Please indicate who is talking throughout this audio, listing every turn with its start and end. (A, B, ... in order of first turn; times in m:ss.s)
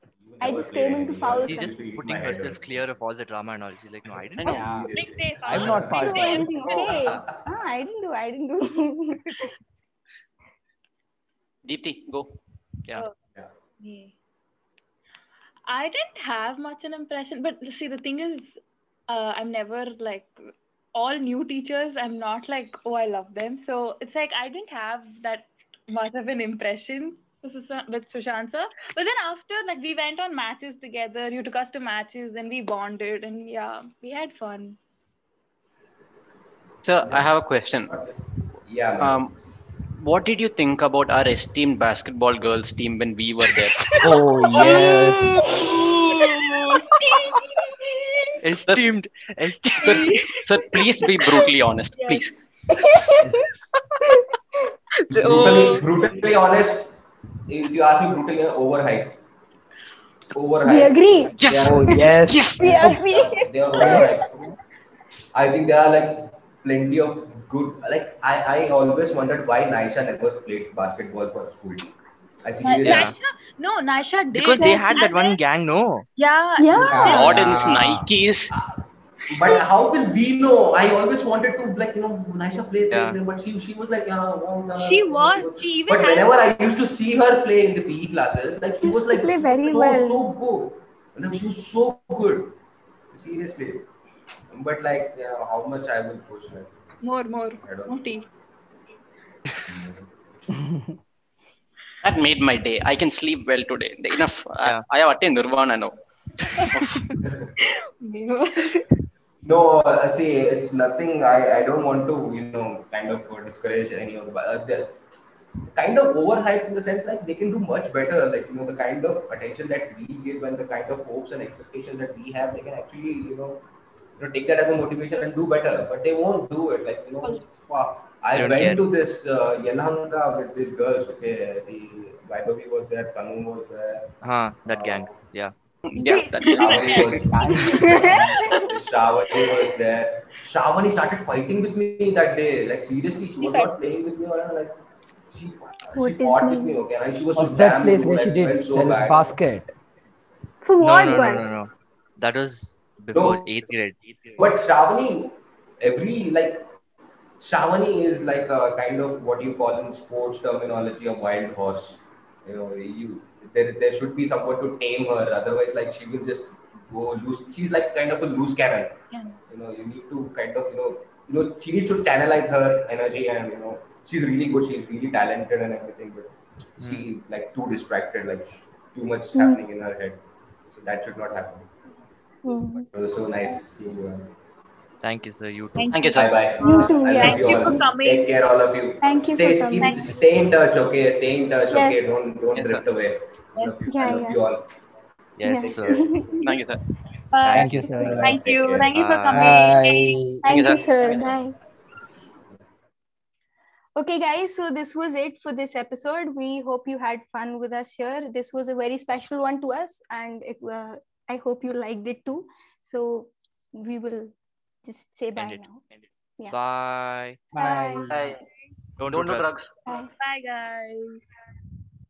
0:00.2-0:02.9 A
0:00.4-0:01.8 B
0:01.4-0:04.6 C
0:04.1-0:06.2 A
0:04.4-0:04.7 D
0:04.4-0:06.7 E
0:04.9-0:07.0 F
0:05.9-0:09.5 B
0:06.8-0:07.5 A
0:11.6-0:12.3 D
0:13.8-0:14.1 F
0:15.7-0:18.5 F
0:19.1-0:34.8 F
0:36.8-0:38.0 D
0:37.0-0:37.3 A
0:37.9-0:39.3 A
0:39.0-0:39.3 D
0:40.0-0:44.0 D
0:44.0-0:45.6 E
0:44.6-0:48.0 F
0:48.4-0:50.2 C
0:49.8-0:52.3 D
0:49.8-0:50.4 F
0:51.1-0:51.4 F
0:52.0-0:52.2 F
0:52.7-0:53.3 B
0:55.0-0:55.9 F
0:55.1-0:59.2 A
1:00.3-1:02.0 A
1:00.6-1:04.2 B
1:01.4-1:03.0 D
1:01.5-1:02.9 E
1:02.8-1:04.6 A
1:03.8-1:04.2 E
1:05.3-1:11.9 A
1:12.4-1:13.1 A
1:12.6-1:15.4 F
1:12.8-1:13.1 C
1:14.3-1:16.0 C
1:16.2-1:17.6 F
1:16.6-1:17.2 B
1:16.9-1:18.1 E
1:17.1-1:18.6 D
1:18.5-1:32.6 A
1:22.9-1:23.2 C
1:24.8-1:26.3 F
1:28.8-1:30.2 B
1:33.1-1:33.9 A
1:34.5-1:36.7 A
1:37.0-1:38.2 F
1:37.6-1:38.1 A
1:39.6-1:40.6 A
1:40.5-1:41.0 E
1:42.0-1:46.0 D
1:46.5-1:47.0 D
1:47.2-1:47.5 A
1:47.6-1:48.9 F
1:49.4-1:55.0 A
1:55.7-2:03.6 A
2:04.2-2:14.1 A
2:08.3-2:08.8 C
2:14.2-2:15.5 C
2:14.6-2:15.2 A
2:15.9-2:18.1 D
2:16.0-2:17.0 F
2:16.5-2:24.8 A
2:17.5-2:18.2 E
2:17.7-2:18.6 B
2:23.4-2:23.7 F
2:25.3-2:29.4 A
2:26.0-2:26.8 B
2:27.3-2:29.7 E
2:30.6-2:31.4 B
2:30.8-2:34.4 C
2:33.1-2:33.7 A
2:34.4-2:36.7 A
2:37.4-3:01.7 A
2:49.1-2:49.4 F
2:56.8-2:57.1 C
2:59.3-2:59.6 B
3:02.4-3:02.9 B
3:02.7-3:04.3 A
3:05.0-3:06.0 C
3:05.8-3:08.3 F
3:05.9-3:06.3 D
3:06.1-3:14.7 A
3:06.6-3:07.8 B
3:09.0-3:10.0 B
3:09.8-3:10.1 F
3:11.7-3:12.0 B
3:12.5-3:12.8 D
3:13.9-3:14.4 B
3:15.4-3:16.1 C
3:15.4-3:16.2 B
3:15.4-3:16.4 A
3:16.4-3:16.8 D
3:17.3-3:20.2 F
3:17.4-3:18.0 C
3:17.5-3:18.4 E
3:17.8-3:19.0 A
3:18.9-3:19.5 C
3:19.3-3:20.4 E
3:20.4-3:21.3 D
3:20.4-3:21.5 B
3:24.0-3:34.3 B
3:34.8-3:35.8 B
3:35.4-3:36.0 C
3:36.5-3:37.4 C
3:37.5-3:38.2 E
3:37.6-3:38.1 B
3:38.1-3:38.4 D
3:39.0-3:39.6 C
3:39.1-3:39.7 D
3:39.9-3:40.1 B
3:39.9-3:41.2 F